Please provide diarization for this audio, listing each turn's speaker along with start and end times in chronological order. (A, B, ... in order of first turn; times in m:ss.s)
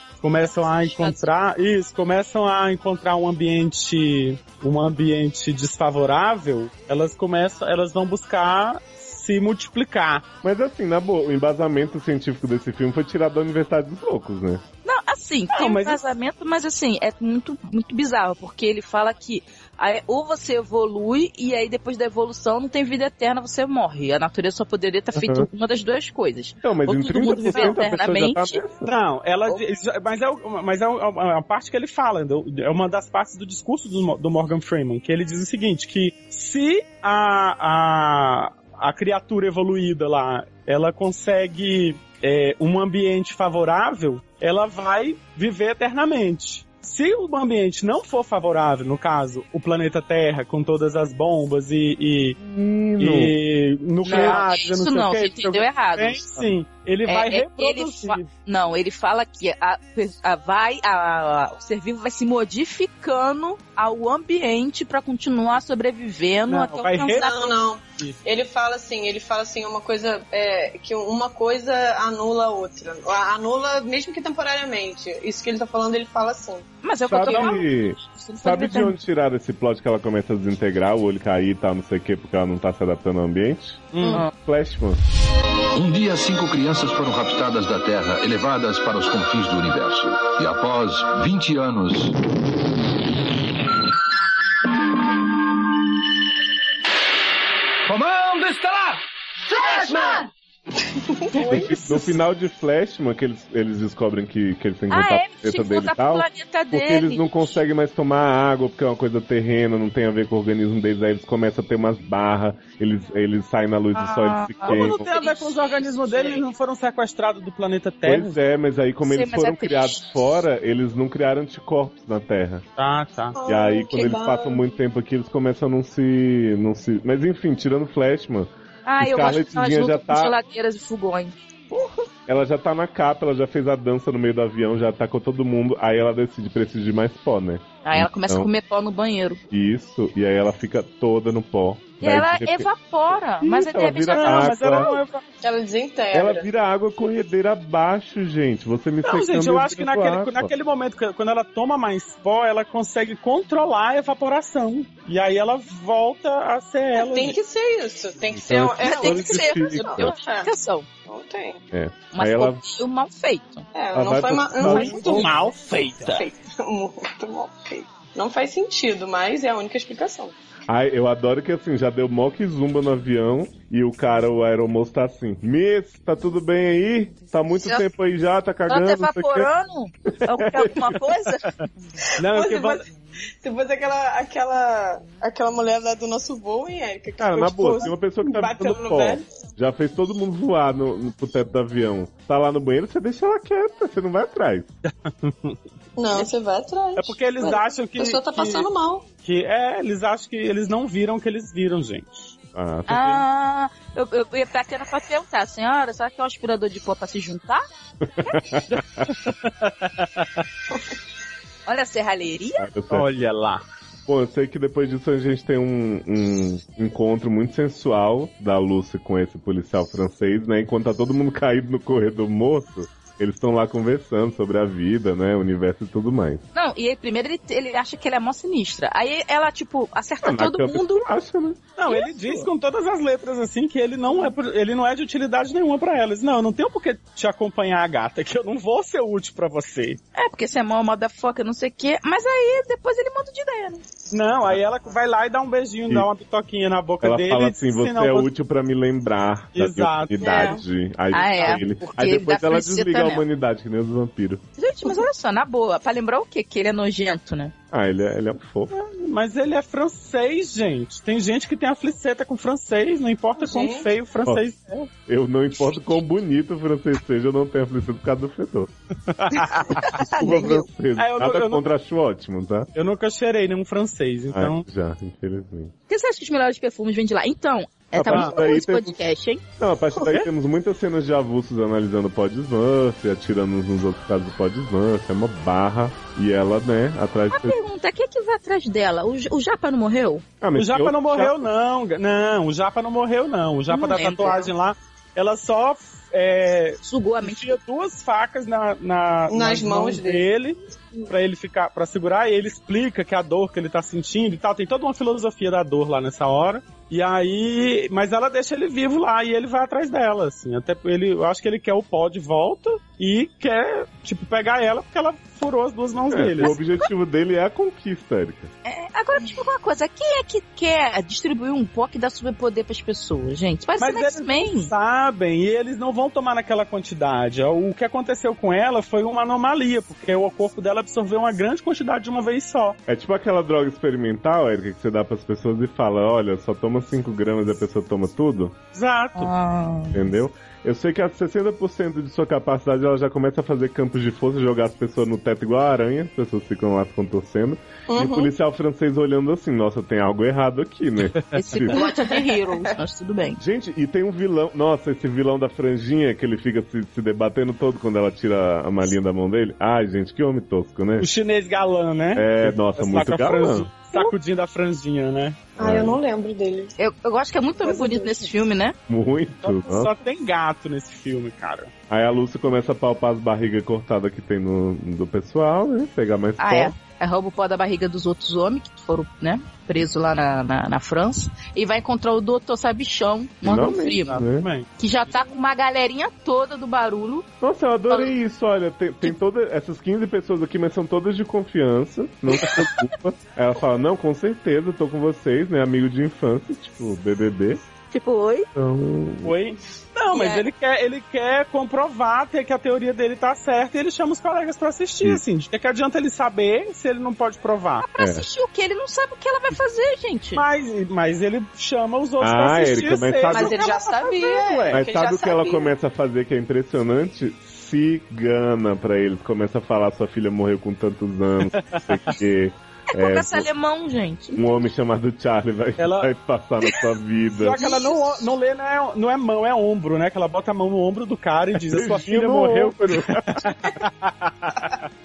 0:00.2-0:10.2 A
0:10.4-0:14.6 B
0:14.8-0:28.6 C
0:15.5-0:16.0 A
0:25.1-0:25.5 B
0:26.6-0:28.9 B
0:27.5-0:27.8 A
0:28.8-0:52.4 A
0:52.4-0:53.4 B
0:53.0-0:58.3 A
0:54.0-0:56.5 C
0:54.1-0:54.4 B
0:57.1-1:07.3 C
1:06.5-1:08.2 A
1:07.1-1:16.7 D
1:16.8-1:19.0 C
1:17.1-1:25.0 B
1:17.3-1:17.6 A
1:23.9-1:24.2 A
1:25.7-1:32.2 E
1:37.9-1:38.6 E
1:39.9-1:40.2 D
1:41.0-1:41.8 D
1:41.3-1:42.2 A
1:41.4-1:55.1 B
1:44.9-1:47.4 C
1:54.0-1:56.4 C
1:54.6-1:58.4 A
1:58.0-2:02.6 B
1:59.0-2:00.1 C
2:02.8-2:03.4 A
2:03.3-2:04.6 D
2:03.5-2:10.3 B
2:08.9-2:11.4 C
2:11.7-2:18.5 B
2:17.8-2:19.4 C
2:19.5-2:24.9 B
2:22.0-2:25.0 C
2:24.1-2:25.2 A
2:25.4-2:26.5 D
2:26.1-2:30.5 B
2:29.0-2:37.4 A
2:37.0-2:40.5 D
2:38.3-2:40.1 B
2:38.8-2:40.9 C
2:41.1-2:41.6 D
2:41.7-2:42.6 B
2:42.1-2:43.6 C
2:43.7-2:45.4 D
2:43.9-2:45.5 B
2:44.6-2:46.3 A
2:46.1-2:50.3 D
2:50.7-2:59.5 B
2:58.7-3:01.5 C
3:00.2-3:01.0 B
3:02.2-3:02.8 A
3:02.2-3:02.9 D
3:03.4-3:09.2 D
3:07.2-3:14.7 B
3:14.8-3:15.6 A
3:16.0-3:19.0 D
3:17.0-3:18.7 A
3:19.2-3:22.1 A
3:22.6-3:23.2 B
3:22.9-3:27.6 C
3:28.2-3:29.1 B
3:28.2-3:28.8 C
3:29.6-3:30.3 A
3:31.7-3:32.6 C
3:32.6-3:33.1 B
3:32.9-3:33.6 A
3:34.1-3:46.4 B
3:46.6-3:51.1 C
3:50.2-3:51.6 B
3:51.8-4:00.0 A
3:51.9-3:52.5 C
4:00.1-4:03.8 C
4:04.1-4:08.3 A
4:07.0-4:14.4 B
4:09.5-4:10.6 A
4:10.2-4:10.6 D
4:11.1-4:13.2 C
4:14.6-4:17.5 C
4:17.7-4:18.7 B
4:18.7-4:24.9 A
4:23.4-4:23.9 D
4:25.1-4:28.7 B
4:29.1-4:30.0 A
4:29.7-4:30.6 C
4:29.9-4:32.7 B
4:31.0-4:31.6 A
4:32.7-4:34.6 A
4:34.3-4:35.7 B
4:35.9-4:39.4 C
4:37.9-4:39.0 B
4:38.1-4:38.4 A
4:39.6-4:47.6 B
4:47.3-4:50.2 C
4:50.4-4:51.5 B
4:50.6-5:16.6 A
4:53.7-4:54.5 C
4:56.8-4:57.6 C
4:59.3-5:00.3 D
5:16.1-5:18.5 B
5:16.4-5:16.9 C
5:18.6-5:24.7 C
5:23.8-5:32.8 A
5:32.9-5:38.6 B
5:38.7-5:39.3 A
5:39.2-5:40.0 C
5:39.9-5:51.8 B
5:47.9-5:48.3 D
5:51.3-5:53.4 C
5:51.7-5:52.6 D
5:53.4-6:01.1 B
6:01.0-6:05.5 A
6:02.1-6:03.7 B
6:05.6-6:06.7 D
6:05.6-6:06.0 B
6:06.8-6:08.7 C
6:07.6-6:08.3 D
6:08.9-6:09.9 B
6:09.4-6:11.7 A
6:11.9-6:16.7 B
6:16.4-6:24.2 C
6:23.4-6:24.5 B
6:24.1-6:24.7 A
6:24.8-6:27.3 C
6:27.4-6:37.6 B
6:27.9-6:28.1 C
6:32.4-6:32.7 C
6:37.9-6:38.5 C
6:38.6-6:39.4 B
6:39.2-6:47.9 A
6:40.1-6:40.4 C
6:47.8-6:50.4 C
6:48.0-6:48.3 B
6:50.3-6:54.8 A
6:52.2-6:53.6 B
6:53.3-6:55.7 D
6:54.7-7:03.5 B
7:02.9-7:04.4 C
7:04.3-7:07.6 B
7:05.8-7:06.1 A
7:07.4-7:14.8 A
7:07.6-7:08.3 C
7:11.7-7:13.7 B